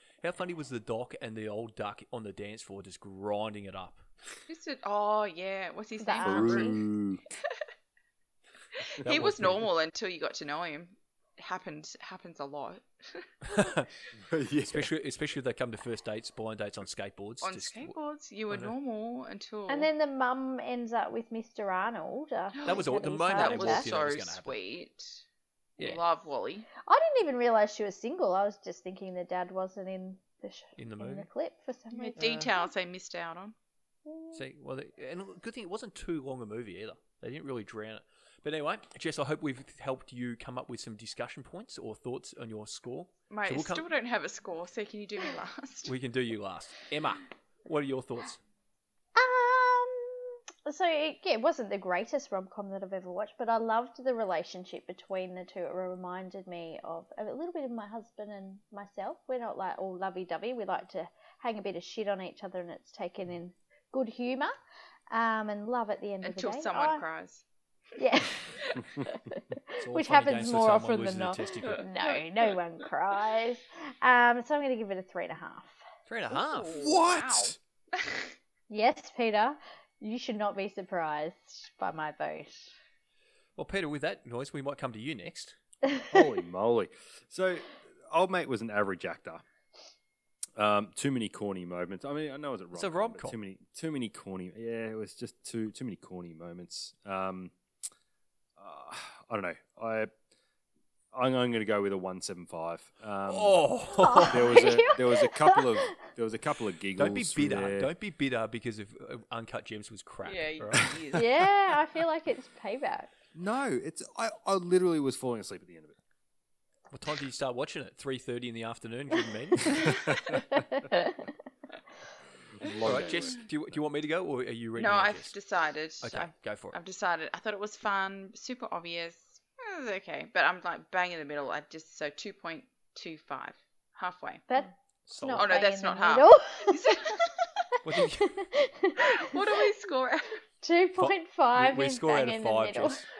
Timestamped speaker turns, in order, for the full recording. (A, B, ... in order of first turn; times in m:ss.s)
0:00.2-0:04.0 A
0:04.5-0:06.8 B
0:06.0-0:06.8 C
0:06.2-0:07.2 D
0:08.8-0:13.5 B
0:09.0-0:09.7 A
0:13.5-0:13.9 A
0:14.2-0:14.9 D
0:14.7-0:17.9 A
0:17.4-0:19.9 B
0:19.7-0:23.9 C
0:22.5-0:25.2 B
0:22.6-0:24.5 A
0:25.8-0:26.7 B
0:26.8-0:32.6 C
0:30.8-0:31.3 A
0:31.9-0:33.5 B
0:32.2-0:32.5 A
0:34.0-0:34.4 C
0:34.3-0:43.9 A
0:43.3-0:45.9 B
0:45.8-0:48.4 A
0:49.1-1:04.5 C
1:05.1-1:07.0 C
1:06.2-1:07.4 B
1:08.0-1:15.8 C
1:09.8-1:11.8 A
1:11.7-1:12.1 B
1:16.1-1:17.3 A
1:16.3-1:18.3 B
1:16.7-1:17.5 D
1:18.7-1:22.7 C
1:23.6-1:25.6 A
1:26.1-1:29.4 D
1:30.6-1:37.5 D
1:32.7-1:33.4 A
1:38.6-1:40.1 D
1:41.1-1:43.6 D
1:43.3-1:44.6 A
1:43.9-1:45.9 C
1:44.2-1:47.9 D
1:47.0-1:50.9 A
1:50.2-1:51.3 B
1:51.1-1:53.1 C
1:53.3-1:56.0 D
1:56.9-1:59.9 A
1:59.8-2:00.1 D
2:00.5-2:01.3 C
2:02.6-2:03.4 D
2:02.8-2:03.2 B
2:02.8-2:05.4 A
2:04.8-2:14.4 B
2:06.0-2:06.8 A
2:14.5-2:17.2 C
2:15.1-2:15.5 A
2:15.3-2:17.4 B
2:17.8-2:18.4 A
2:18.0-2:19.3 C
2:19.1-2:20.4 B
2:20.6-2:23.0 C
2:21.0-2:23.0 A